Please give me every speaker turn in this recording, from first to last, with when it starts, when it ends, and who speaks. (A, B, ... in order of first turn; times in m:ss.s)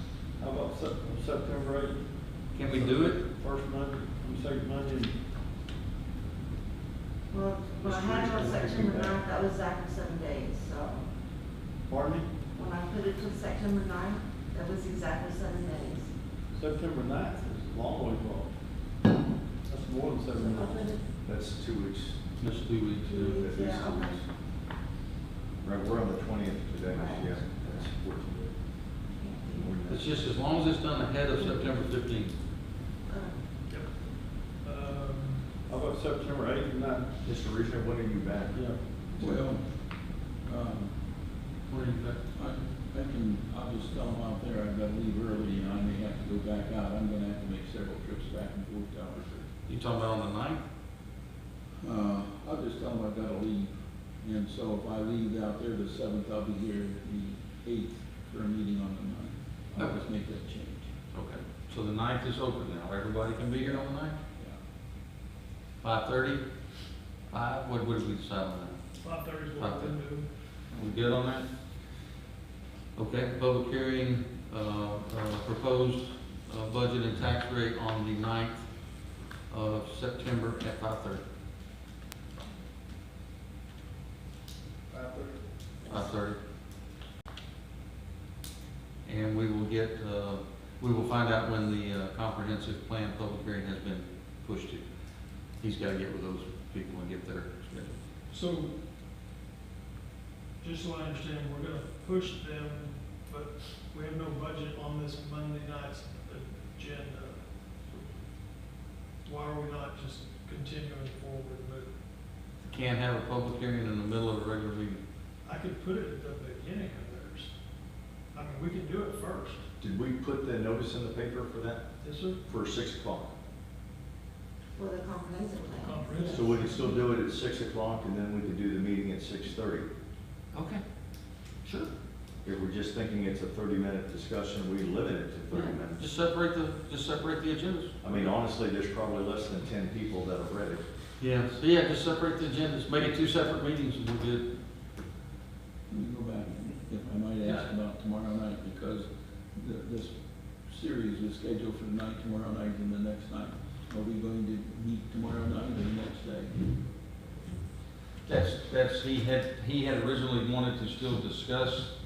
0:00.4-0:02.0 A
0:02.5-0:03.2 B
0:02.6-0:05.1 A
0:07.3-0:11.0 C
0:07.8-0:08.8 D
0:08.1-0:09.2 A
0:11.9-0:12.3 A
0:12.5-0:16.1 C
0:16.5-0:18.5 A
0:19.7-0:20.9 A
0:20.4-0:21.1 C
0:21.2-0:22.2 D
0:22.4-0:23.4 B
0:23.0-0:24.2 C
0:23.4-0:24.2 D
0:25.6-0:28.5 D
0:26.8-0:27.8 C
0:29.2-0:29.8 C
0:29.5-0:30.4 D
0:29.8-0:32.3 B
0:33.1-0:33.4 C
0:34.6-0:35.4 E
0:35.7-0:37.0 A
0:37.2-0:38.6 D
0:38.5-0:38.8 A
0:39.2-0:39.6 F
0:40.4-0:40.9 F
0:41.7-0:42.2 B
0:42.3-0:49.5 F
0:49.6-0:50.6 B
0:51.8-1:00.9 F
0:59.8-1:00.0 B
1:01.1-1:04.1 B
1:03.6-1:04.6 F
1:05.8-1:06.4 B
1:07.3-1:08.8 B
1:09.0-1:10.3 E
1:09.6-1:09.9 B
1:10.7-1:11.5 B
1:13.0-1:18.6 B
1:19.5-1:21.2 B
1:24.9-1:25.4 A
1:25.9-1:26.4 B
1:29.0-1:34.8 B
1:35.6-1:38.0 B
1:38.3-1:38.7 E
1:40.6-1:48.1 E
1:49.2-1:51.9 E
1:52.6-1:55.0 B
1:55.4-1:57.5 E
1:58.3-1:59.6 E
1:59.8-2:01.8 D
2:02.0-2:02.4 E
2:02.4-2:03.3 D
2:04.8-2:06.8 C
2:05.8-2:06.9 E
2:06.3-2:09.9 D
2:10.5-2:10.8 B
2:11.6-2:11.9 B
2:12.4-2:16.0 D
2:15.5-2:18.3 B
2:18.0-2:20.8 D
2:21.2-2:24.4 B
2:25.9-2:36.5 F
2:27.4-2:27.7 B
2:38.3-2:41.9 B